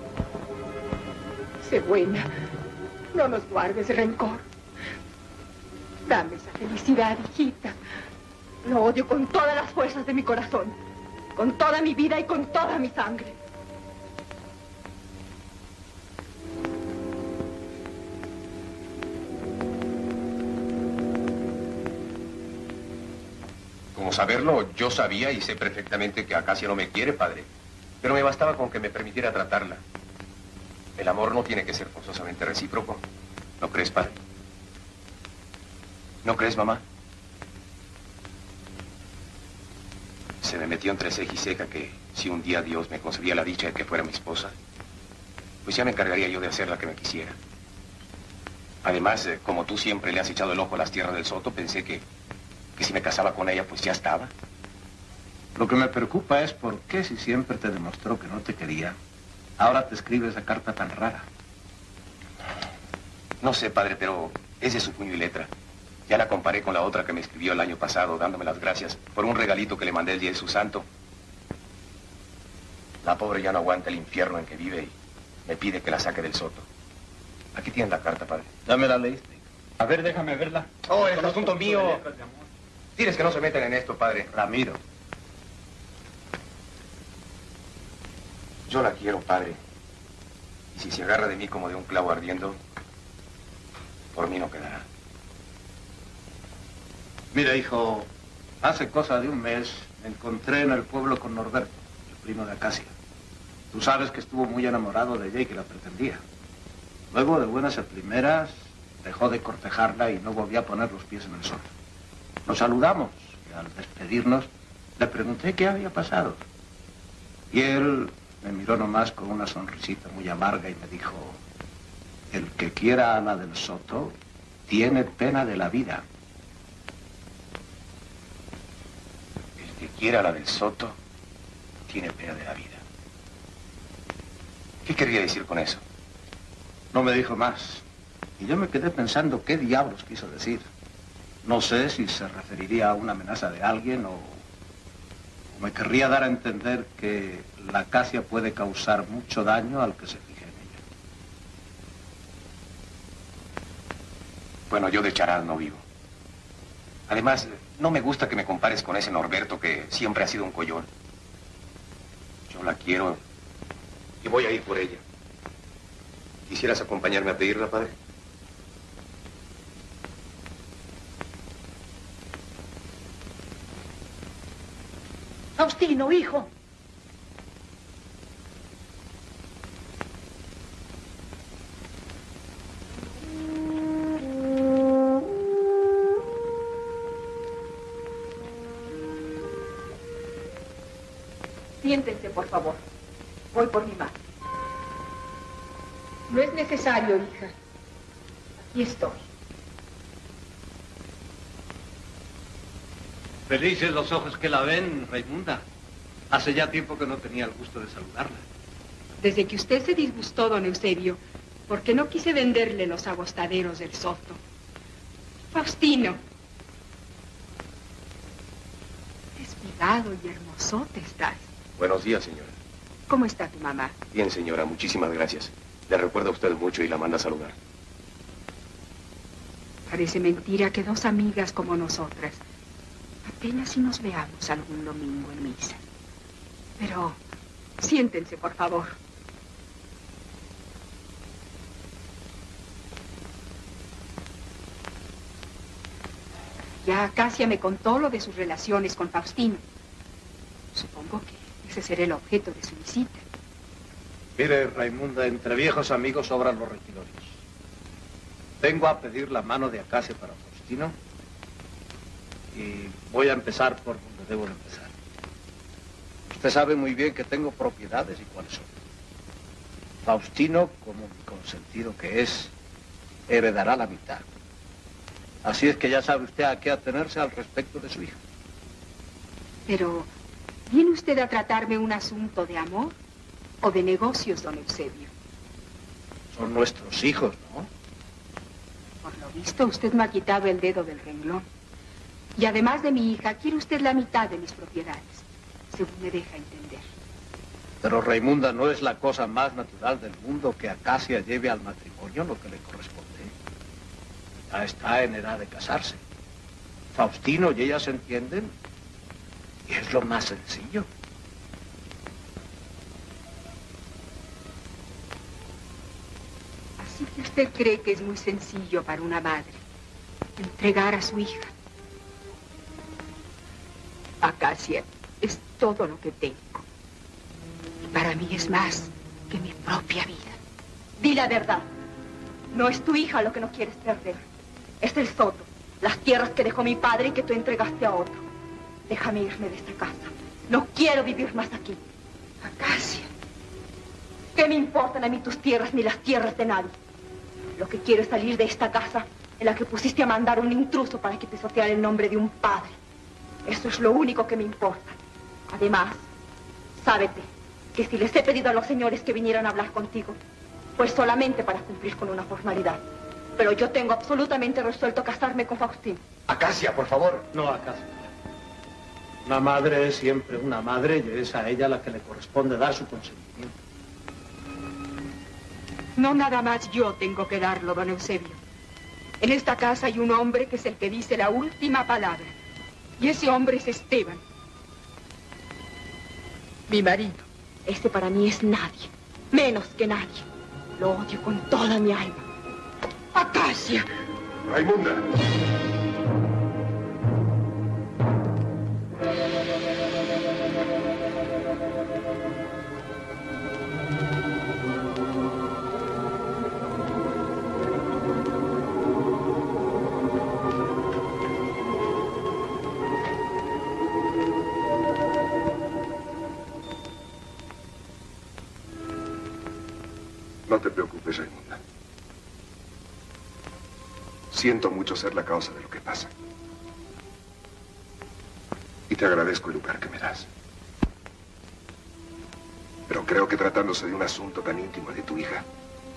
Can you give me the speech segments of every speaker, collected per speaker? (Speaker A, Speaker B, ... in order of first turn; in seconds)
Speaker A: 1.6-2.3, 3.1-4.5, 6.1-7.8, 193.5-194.1, 196.3-197.5, 198.7-199.2, 209.2-214.4, 215.5-216.2, 219.3-221.5, 223.1-223.9, 229.9-232.4, 233.2-235.8, 236.8-237.2, 237.8-239.0, 246.8-249.6, 250.7-253.2, 279.7-280.1, 280.7-282.9, 283.6-285.1, 289.0-291.4, 292.4-296.9, 316.8-319.6, 320.4-321.5, 324.2-326.6, 327.8-330.4, 342.4-343.1, 376.0-378.4, 379.2-382.4, 383.0-384.2, 386.7-387.3, 389.3-389.9, 390.8-392.2, 393.1-393.9
Speaker B: 8.6-10.8, 11.3-13.3, 191.8-192.8, 331.0-331.6, 332.5-334.2, 334.8-338.2, 338.9-341.8, 344.3-346.7, 347.6-352.8, 353.4-354.9, 355.5-356.1, 356.8-360.2, 360.8-362.8, 363.4-366.0, 387.7-388.8, 389.4-390.1, 390.9-392.1
Speaker C: 23.9-27.5, 28.0-29.8, 30.9-33.0, 33.6-34.1, 36.2-36.8, 40.4-44.5, 45.6-47.4, 48.8-52.0, 52.8-54.3, 63.4-65.5, 66.1-70.8, 73.0-74.9, 75.5-76.7, 77.5-78.5, 81.0-82.0, 83.0-84.3, 88.7-89.6, 90.7-92.6, 94.1-94.8, 129.6-131.0, 131.9-132.8, 134.8-135.8, 154.7-155.8, 157.1-160.9, 162.5-163.2, 164.2-165.0, 166.5-167.9, 221.8-222.5, 224.1-227.6
Speaker D: 55.5-59.0, 59.6-61.3, 78.7-82.3, 84.3-84.8, 97.3-98.1, 98.6-102.9, 103.7-106.2, 107.1-111.7, 112.5-116.4, 117.5-121.4, 122.3-124.1, 124.7-126.0, 136.9-137.8, 138.4-140.7, 141.4-144.4, 145.5-150.8, 203.5-205.6, 206.3-208.4, 254.4-257.4, 258.6-260.9, 262.5-264.9, 266.3-268.7, 270.0-272.5, 273.3-274.2, 275.4-278.2, 286.3-287.7, 297.8-303.3, 304.5-306.0, 306.9-308.5, 309.7-310.9, 366.3-368.0, 369.2-373.5
Speaker E: 394.4-395.1, 420.5-421.6, 424.3-426.1, 428.9-430.3, 432.9-435.4